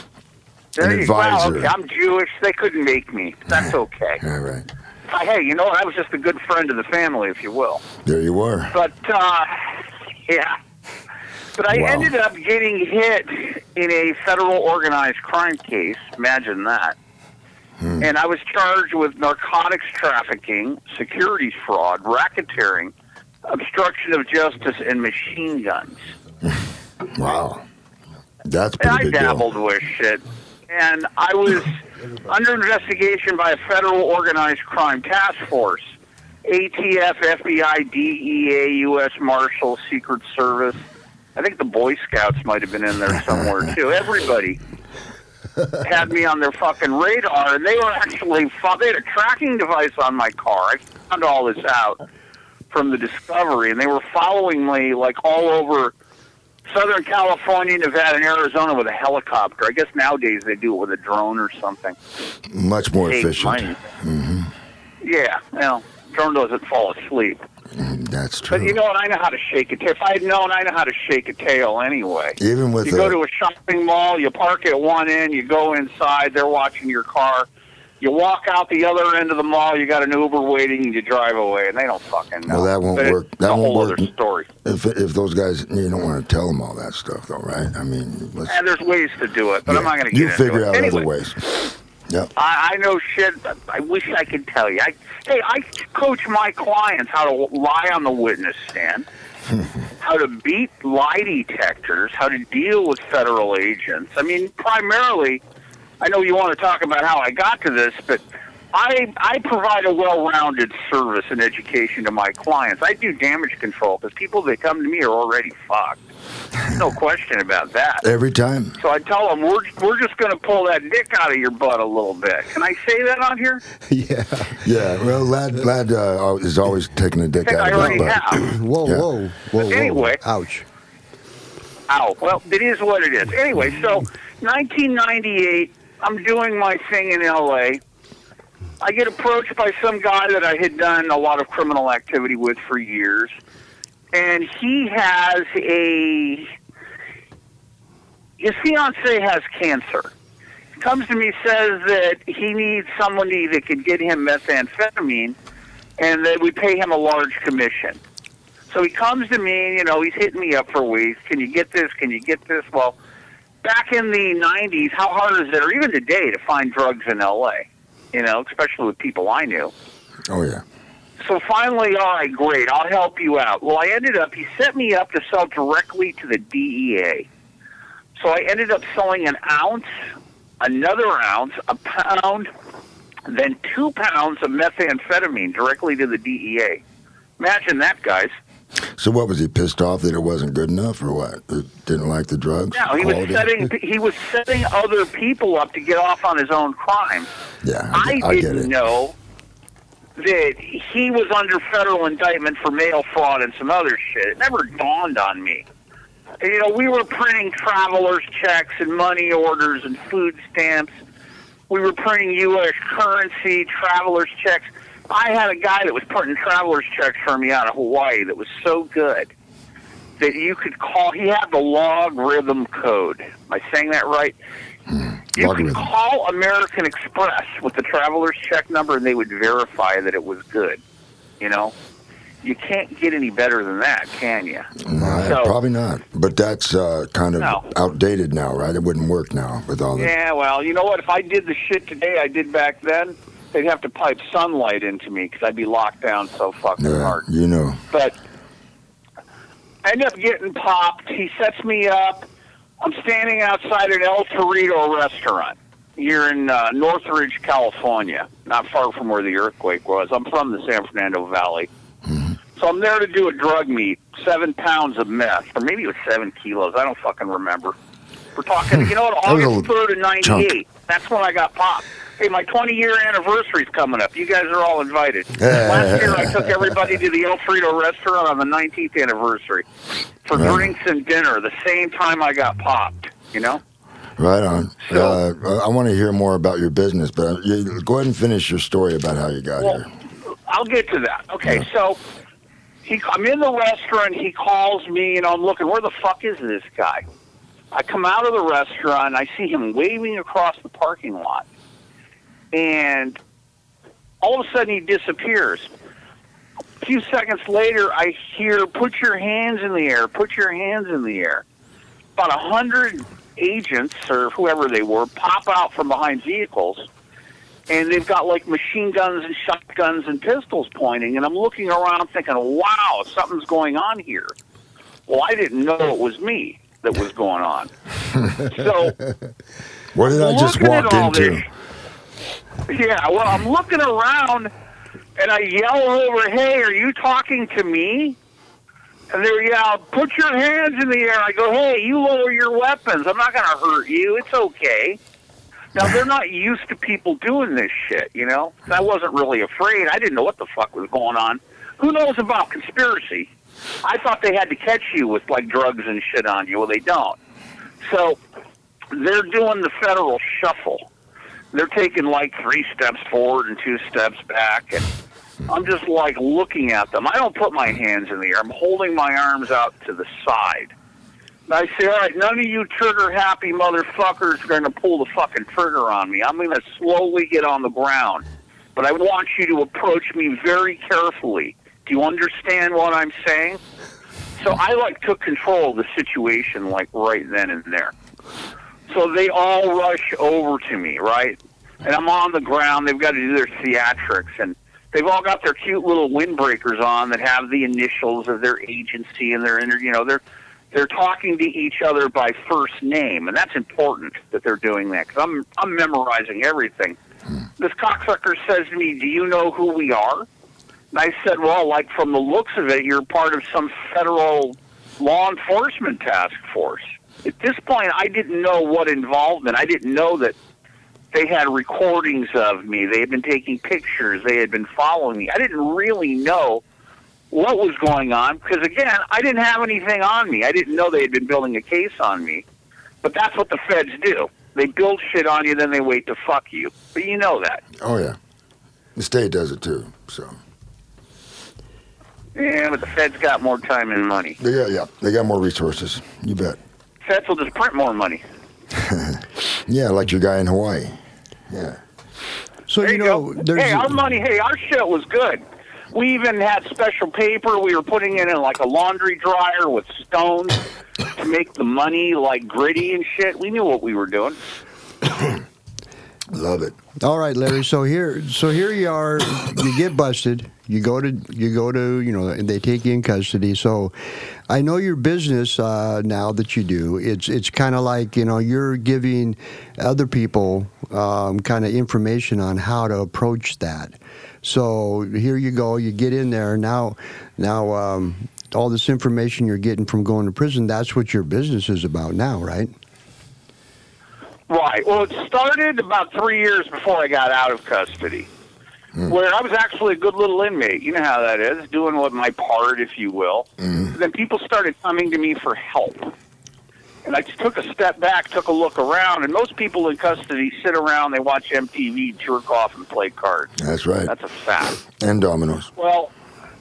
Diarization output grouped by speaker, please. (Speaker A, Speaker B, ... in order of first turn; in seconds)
Speaker A: 0.8-4.2, 5.1-7.8, 8.7-10.6, 11.6-16.9, 18.0-22.9, 23.5-26.0, 28.8-40.8, 41.3-44.6, 45.8-52.0, 52.7-55.9, 56.7-62.0, 63.0-63.8, 65.0-67.4, 68.5-77.5, 78.0-84.5, 88.5-91.1, 92.3-99.0, 100.0-105.4, 106.0-108.2, 108.7-116.0, 116.7-118.0, 118.8-123.6, 127.4-128.4, 129.6-130.2, 131.9-137.8, 138.8-143.3, 144.1-146.5, 148.4-150.1, 150.7-155.3, 156.0-158.0, 158.7-162.9, 163.6-169.7, 171.2-177.3, 178.2-179.9, 180.6-182.5, 183.3-186.8, 187.4-188.3, 192.7-197.3, 197.9-199.1, 200.2-205.6, 206.4-210.9, 211.7-219.3, 220.2-224.3, 225.3-230.8, 231.4-231.7, 232.4-234.7, 235.2-235.6, 237.4-237.6, 239.9-247.2, 247.9-248.2, 249.8-252.3, 252.8-261.7, 262.6-267.7, 268.4-279.6, 280.2-283.6, 284.9-285.2, 290.5-292.0, 292.8-297.0, 297.7-301.4, 302.5-303.2, 304.2-305.7, 306.8-311.4, 312.2-316.9, 317.7-324.3, 325.1-327.7, 328.3-329.0, 330.0-331.5, 332.6-334.5, 335.2-338.2, 339.1-345.0, 345.7-353.3, 353.8-357.2, 357.8-358.2, 358.9-360.9, 361.5-364.9, 365.5-370.7, 371.5-378.2, 378.7-383.6, 384.4-387.9, 388.9-400.2, 400.7-407.0, 407.6-410.2, 410.9-420.3, 421.1-426.6, 427.3-432.4, 433.0-437.6, 442.4-444.4, 447.0-448.2, 452.8-455.4, 455.9-464.4, 494.5-498.3, 499.1-506.1, 507.0-513.5, 514.0-514.8, 515.8-516.1
Speaker B: 0.8-1.7, 4.2-4.7, 8.0-8.7, 11.7-12.1, 17.8-18.0, 27.1-27.6, 28.4-29.4, 62.5-64.5, 67.7-68.8, 72.4-73.2, 82.5-84.1, 84.6-88.5, 89.7-92.3, 118.0-118.8, 124.6-129.1, 170.3-170.6, 189.0-193.5, 197.6-198.7, 224.9-225.8, 234.8-240.1, 246.8-247.8, 269.2-269.7, 270.2-270.5, 275.4-276.3, 280.3-280.7, 284.2-289.9, 329.9-331.4, 437.8-438.2, 438.9-440.3, 444.4-446.6, 448.8-451.0, 451.5-451.8, 466.3-466.8, 503.6-503.9, 513.6-514.1, 515.0-515.7
Speaker C: 123.9-124.7, 127.7-130.7, 234.9-235.3, 452.7-454.0, 467.0-492.7